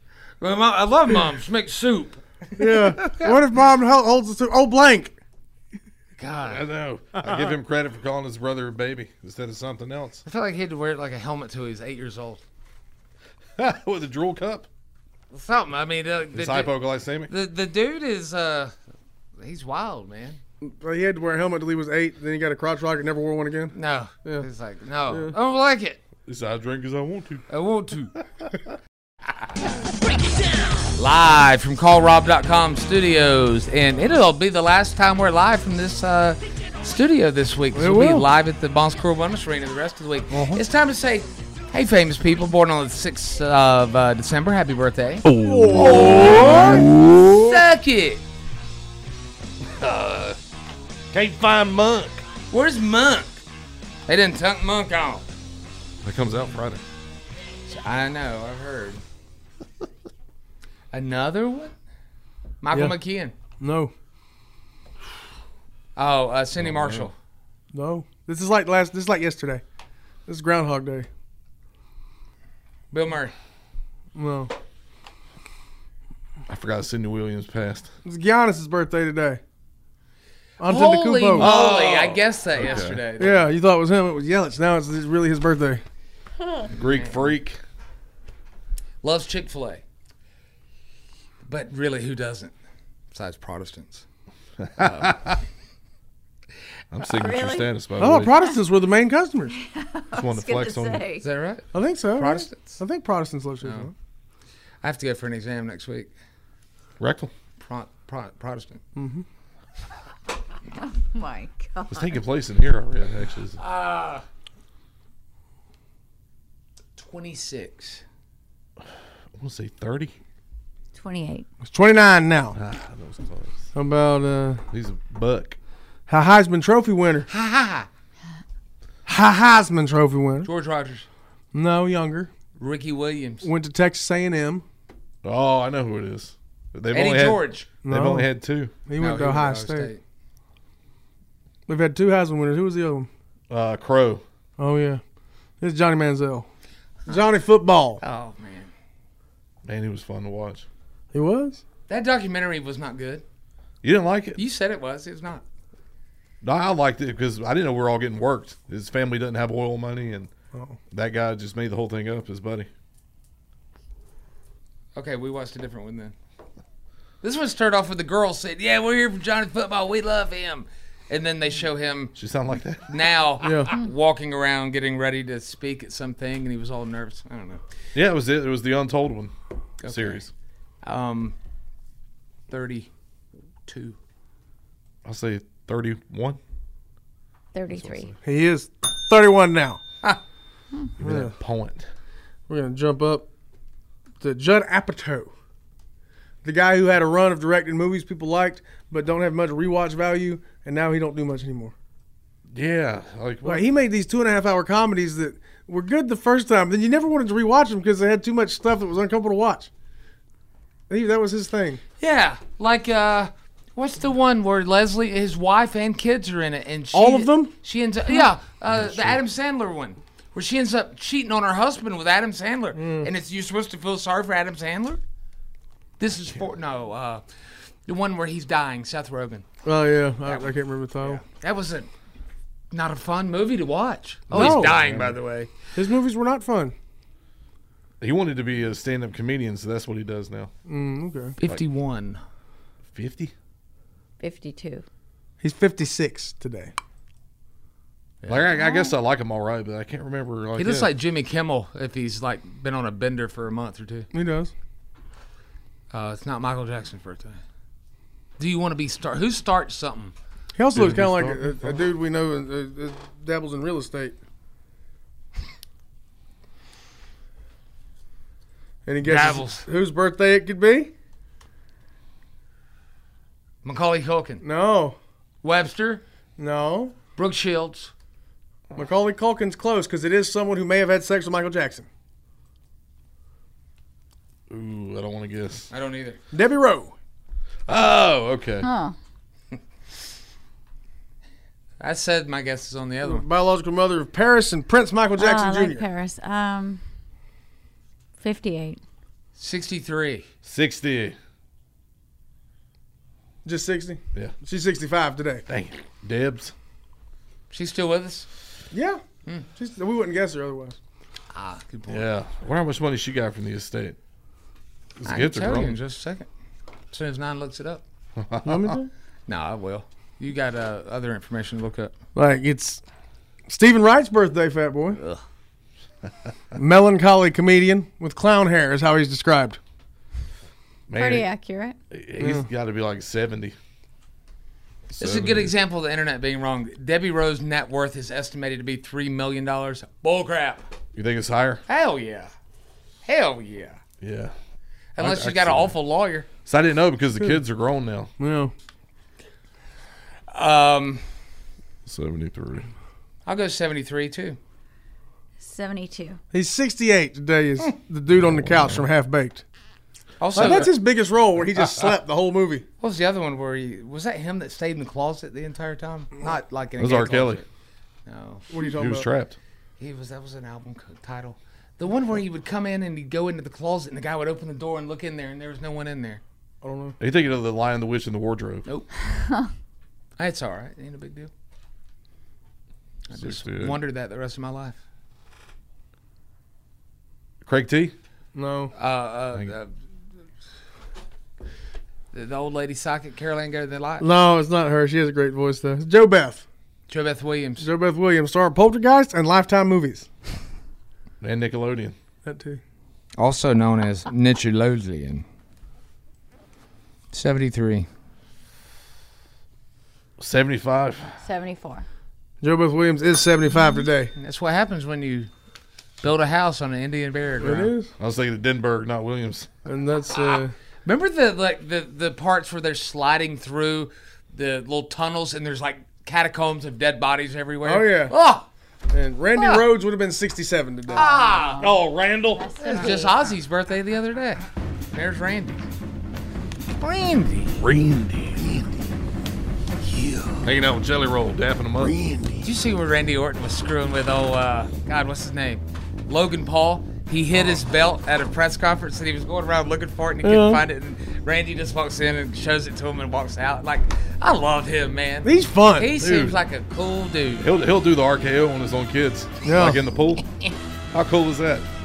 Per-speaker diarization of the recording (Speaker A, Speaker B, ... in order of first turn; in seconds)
Speaker A: 0.4-3.4, 6.2-6.6, 10.2-12.4, 15.3-18.7, 19.4-20.4, 23.7-26.0, 27.5-28.1, 30.9-45.2, 45.9-48.2, 52.5-53.4, 54.1-55.2, 57.7-59.0, 60.9-61.7, 62.6-63.3, 66.0-67.1, 72.9-73.3, 80.6-83.5, 86.8-87.3, 89.0-89.8, 91.5-92.5, 93.1-94.0, 94.8-95.1, 101.2-102.8, 103.6-103.9, 104.8-106.1, 107.6-108.8, 113.6-114.2, 117.0-118.0, 127.3-127.9, 130.4-131.1, 132.6-133.5, 136.9-137.7, 139.0-140.0, 148.0-148.7, 151.9-153.2, 154.4-155.4, 164.9-166.2, 167.2-172.2, 172.9-177.6, 179.8-180.2, 180.8-181.3, 182.5-182.9, 183.7-184.0, 212.0-225.0, 226.0-227.2, 227.9-229.5, 230.2-231.9, 232.7-235.7, 241.4-242.2, 248.2-248.5, 250.6-254.1, 255.9-257.4, 258.4-260.1, 269.0-269.7, 273.6-274.4, 275.4-276.0, 277.2-277.9, 285.7-286.2, 291.8-293.3, 299.4-300.3, 307.5-308.3, 311.3-312.1, 315.1-316.3, 316.9-317.8, 319.3-321.9, 335.0-340.6, 341.7-342.3, 343.0-343.8, 345.0-346.3, 350.3-351.1, 353.3-354.4, 360.2-360.8, 362.8-367.5, 368.1-368.5, 369.8-376.2, 378.7-379.0, 380.2-381.3, 383.1-384.8, 388.8-389.7, 392.1-394.1, 396.9-397.7, 403.2-405.2, 407.1-407.9, 414.1-415.3, 416.0-417.7, 420.1-428.5, 429.4-429.7, 431.0-431.6, 432.6-434.4, 434.9-435.6, 436.8-437.6, 442.4-457.5
Speaker B: 2.6-5.2, 20.6-24.5, 25.1-25.3, 37.7-38.3, 40.3-40.6, 45.4-46.9, 63.6-63.9, 67.7-69.6, 70.3-71.1, 74.2-74.5, 78.0-79.4, 80.6-81.7, 83.2-85.8, 98.0-99.6, 101.7-103.9, 109.0-109.2, 121.7-122.6, 123.7-124.6, 126.1-127.3, 129.1-130.5, 131.5-132.3, 133.4-134.6, 137.8-138.3, 138.8-139.9, 141.7-143.1, 144.6-145.0, 145.6-146.5, 147.1-148.0, 151.1-151.6, 173.4-173.7, 188.2-189.8, 191.0-191.3, 192.5-193.3, 194.2-195.3, 196.4-201.7, 203.4-209.7, 210.9-211.8, 216.9-217.6, 222.8-223.1, 229.7-231.2, 234.3-236.8, 240.7-241.4, 245.4-246.7, 254.1-254.5, 260.6-264.2, 268.9-270.9, 274.4-275.0, 276.4-276.9, 278.8-281.9, 286.3-286.9, 293.0-295.9, 303.4-305.4, 308.7-309.0, 309.6-310.8, 318.4-318.9, 322.1-322.8, 323.5-325.0, 326.6-329.6, 332.2-332.5, 348.2-348.5, 356.3-359.4, 360.3-362.6, 368.5-369.1, 376.6-377.0, 388.4-388.7, 394.0-396.4, 397.6-400.1, 402.2-402.6, 412.4-414.1, 417.4-417.9, 419.7-420.5, 427.6-428.1, 428.9-431.1, 450.2-450.6, 455.2-455.9, 459.4-459.8
Speaker C: 6.5-10.2, 13.6-14.7, 16.3-17.3, 26.3-27.5, 45.2-47.2, 49.7-50.4, 51.1-52.2, 56.0-56.8, 66.6-67.1, 76.5-77.9, 81.4-83.1, 86.7-87.6, 94.6-95.4, 96.9-98.4, 100.1-101.1, 107.0-107.3, 111.9-113.6, 119.3-120.2, 122.5-123.7, 124.7-125.6, 135.2-138.8, 143.5-144.2, 149.7-150.7, 153.8-154.4, 156.4-160.3, 160.9-162.7, 172.2-172.8, 177.9-179.3, 179.8-180.3, 185.1-186.4, 187.7-188.2, 191.0-191.9, 202.5-203.7, 218.7-219.2, 234.3-235.2, 238.0-240.5, 242.9-243.3, 248.3-250.9, 260.7-261.7, 284.5-285.7, 287.7-288.7, 300.4-301.2, 305.5-306.5, 311.9-314.0, 315.0-315.8, 318.2-318.8, 330.9-331.3, 331.9-333.6, 334.9-335.5, 340.9-341.6, 344.0-344.3, 345.0-345.7, 346.5-348.1, 351.9-352.7, 358.6-358.8, 360.4-360.7, 366.8-367.4, 368.7-369.4, 377.0-378.7, 383.1-383.8, 387.4-387.9, 401.2-402.0, 410.2-411.1, 418.0-419.5, 431.6-432.9, 437.6-438.7, 440.4-442.2, 456.0-456.4, 457.4-460.2, 460.9-461.7
Speaker D: 97.1-97.7, 99.5-101.2, 110.8-112.2, 120.9-121.5, 187.5-188.1, 244.2-244.8, 248.6-248.9, 288.6-288.9, 295.2-296.8, 298.2-298.8, 330.9-331.8, 355.4-356.2, 411.2-411.9, 430.9-431.7, 432.4-433.2